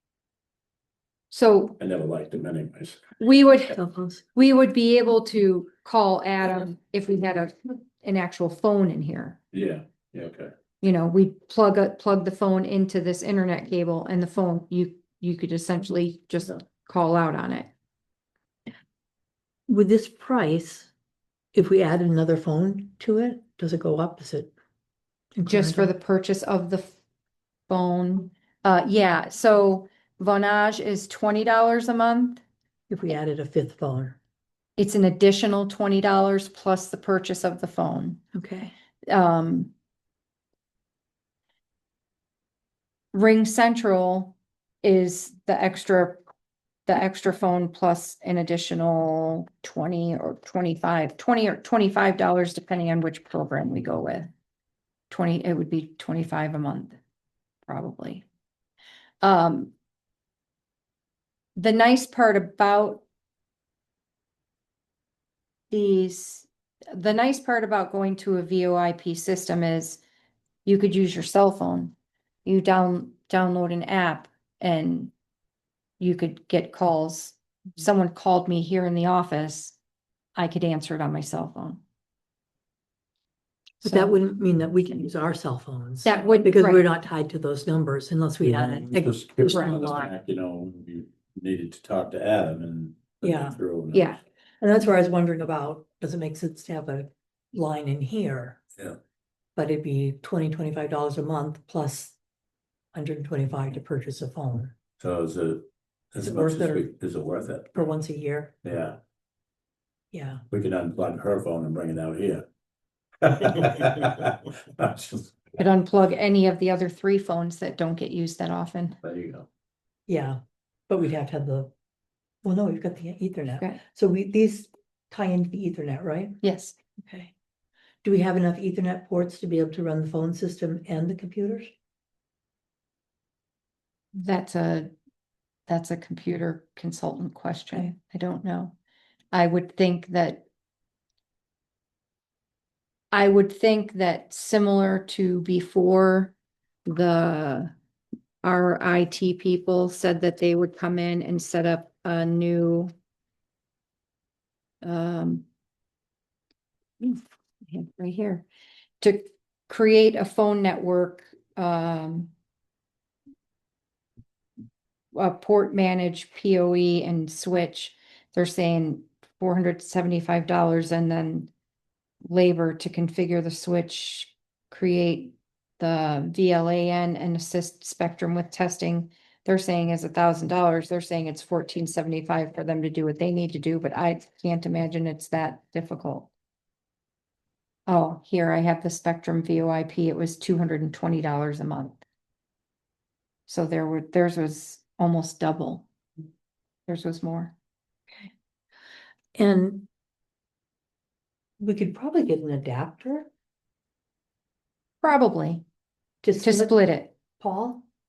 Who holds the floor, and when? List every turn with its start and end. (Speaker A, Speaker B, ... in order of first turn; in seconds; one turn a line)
Speaker A: 1.3-1.8
Speaker B: 1.8-3.0
Speaker A: 3.2-3.8
Speaker C: 3.7-4.2
Speaker A: 4.3-9.4
Speaker B: 9.5-10.5
Speaker A: 10.8-17.7
Speaker C: 19.7-20.9
Speaker C: 21.5-24.5
Speaker C: 25.4-25.9
Speaker A: 25.5-27.0
Speaker A: 27.7-32.4
Speaker C: 32.9-34.2
Speaker A: 34.8-38.2
Speaker C: 38.3-38.7
Speaker A: 39.1-39.7
Speaker A: 43.1-46.2
Speaker A: 46.9-54.3
Speaker A: 55.1-57.0
Speaker A: 57.7-58.3
Speaker A: 59.2-59.7
Speaker A: 61.6-63.0
Speaker A: 65.7-70.0
Speaker A: 70.7-75.1
Speaker A: 76.0-79.8
Speaker A: 80.4-81.8
Speaker C: 83.8-90.1
Speaker A: 83.8-84.2
Speaker A: 86.0-86.8
Speaker B: 88.4-94.2
Speaker C: 93.2-93.6
Speaker A: 93.9-94.2
Speaker C: 94.6-98.6
Speaker C: 99.6-102.2
Speaker C: 102.9-104.8
Speaker B: 105.0-107.9
Speaker C: 106.2-106.9
Speaker C: 107.8-108.5
Speaker B: 108.6-109.0
Speaker C: 110.1-110.4
Speaker B: 110.5-112.4
Speaker B: 113.2-115.5
Speaker A: 115.6-119.0
Speaker B: 119.0-119.5
Speaker C: 120.1-120.4
Speaker C: 120.9-121.7
Speaker C: 122.4-126.4
Speaker A: 126.4-126.8
Speaker C: 127.0-127.3
Speaker C: 128.0-131.7
Speaker A: 134.1-134.9
Speaker A: 135.7-138.8
Speaker A: 139.3-140.4
Speaker A: 143.1-146.3
Speaker A: 146.9-147.7
Speaker A: 148.4-152.9
Speaker A: 154.8-155.4
Speaker A: 157.0-158.4
Speaker A: 159.0-162.3
Speaker A: 165.1-171.5
Speaker A: 172.2-186.3
Speaker A: 187.9-192.0
Speaker A: 193.5-195.9
Speaker A: 196.9-197.5
Speaker C: 199.4-199.9
Speaker C: 201.6-203.3
Speaker A: 205.0-205.6
Speaker C: 206.2-206.8
Speaker A: 206.4-207.1
Speaker C: 207.4-207.8